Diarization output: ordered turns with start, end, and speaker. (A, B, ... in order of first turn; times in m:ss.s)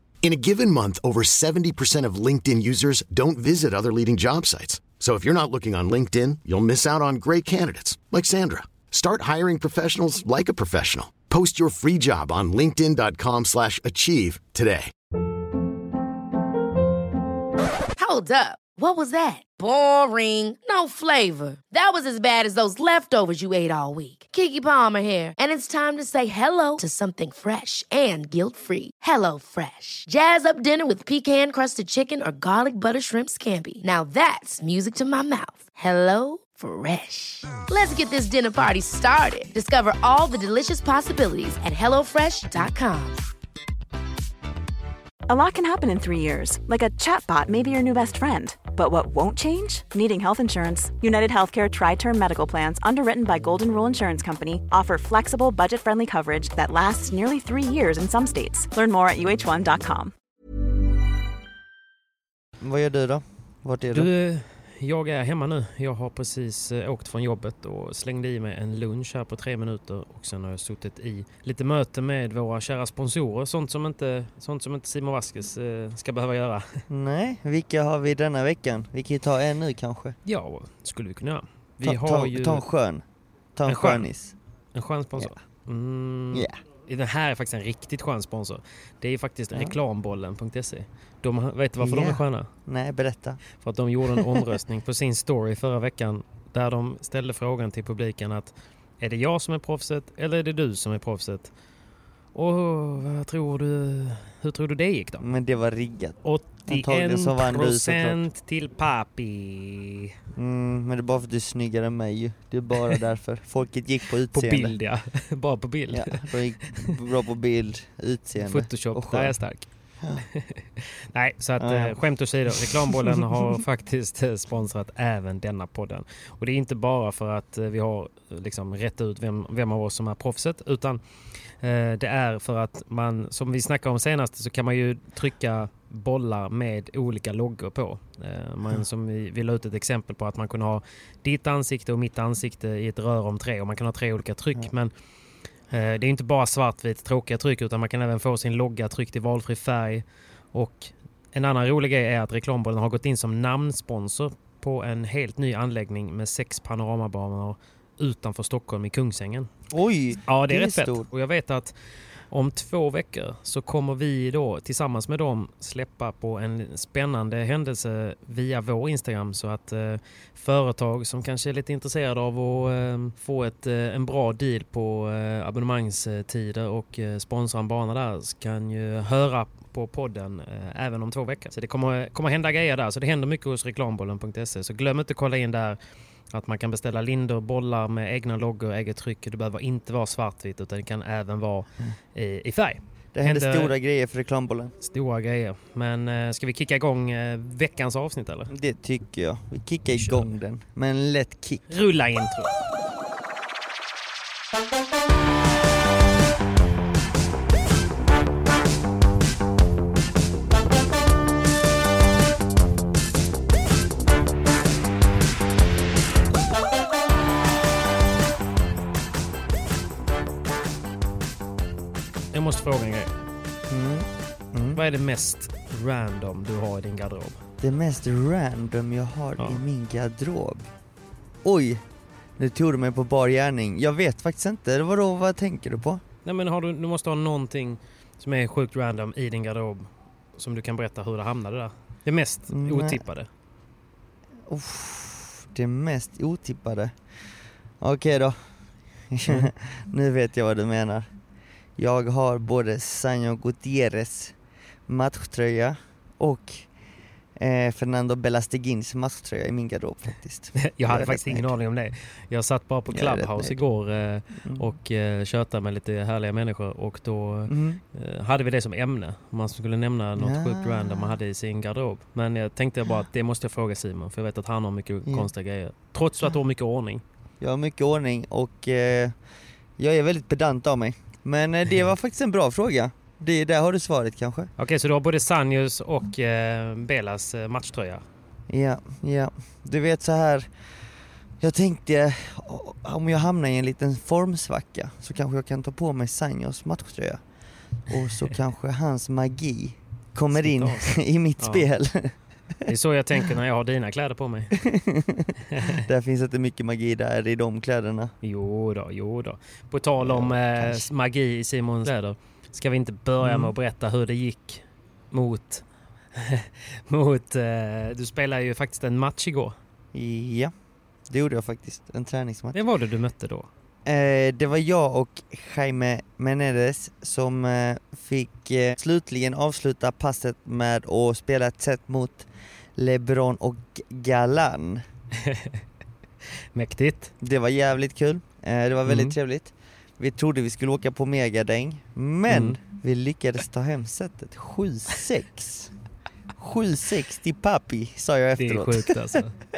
0:00.2-0:14.9 A
0:18.0-0:43.2 B
0:45.3-1:00.1 C
1:02.6-1:04.1 D
1:03.9-1:16.8 E
1:16.9-1:20.2 D
1:20.2-1:22.6 E
1:21.8-1:23.0 D
1:23.6-1:24.3 D
1:23.6-1:24.1 E
1:24.7-1:32.5 E
1:26.3-1:26.6 D
1:31.8-1:33.4 D
1:33.6-1:41.5 E
1:34.2-1:34.6 D
1:42.3-1:45.3 E
1:45.2-1:48.2 D
1:46.2-1:50.1 E
1:50.4-1:54.8 D
1:54.3-1:57.0 E
1:55.9-1:59.4 D
1:58.4-1:59.7 E
2:00.0-2:00.3 D
2:00.3-2:11.0 E
2:01.6-2:02.0 D
2:02.5-2:03.6 D
2:11.6-2:24.9 E
2:25.7-2:39.5 E
2:39.7-2:41.1 D
2:40.2-2:41.7 E
2:42.3-3:05.8 E
3:06.3-3:13.7 E
3:13.1-3:14.7 D
3:14.8-3:18.5 E
3:18.5-3:21.7 D
3:19.9-3:20.3 E
3:21.7-3:22.5 E
3:42.3-3:43.1 E
3:43.7-3:44.8 D
3:44.7-3:47.4 E
3:47.6-3:50.6 D
3:49.4-3:49.6 E
3:51.4-3:51.8 D
3:52.4-3:56.0 D
3:56.2-4:03.3 E
4:02.5-4:03.0 D
4:04.5-4:06.9 D
4:07.8-4:08.4 D
4:09.1-4:11.1 D
4:11.8-4:14.3 D
4:14.9-4:16.7 D
4:17.4-4:21.5 D
4:20.6-4:37.0 E
4:22.9-4:23.6 D
4:24.4-4:24.7 D
4:27.5-4:27.8 D
4:30.2-4:31.1 D
4:37.4-4:39.1 D
4:39.8-4:44.5 D
4:44.6-4:48.0 E
4:48.5-4:50.5 D
4:51.4-4:57.2 D
4:57.9-5:02.1 D
5:00.3-5:01.7 E
5:02.6-5:04.6 E
5:04.6-5:08.1 D
5:05.5-5:05.8 E
5:08.2-5:15.6 E
5:10.0-5:10.9 D
5:13.2-5:13.5 D
5:16.2-5:19.6 E
5:19.9-5:20.5 D
5:21.1-5:22.6 D
5:22.5-5:23.5 E
5:23.8-5:34.8 D
5:35.2-5:35.6 E
5:36.5-5:37.1 E
5:37.2-5:45.7 D
5:38.8-5:39.2 E
5:42.3-5:42.6 E
5:46.4-5:49.2 D
5:48.4-5:49.4 E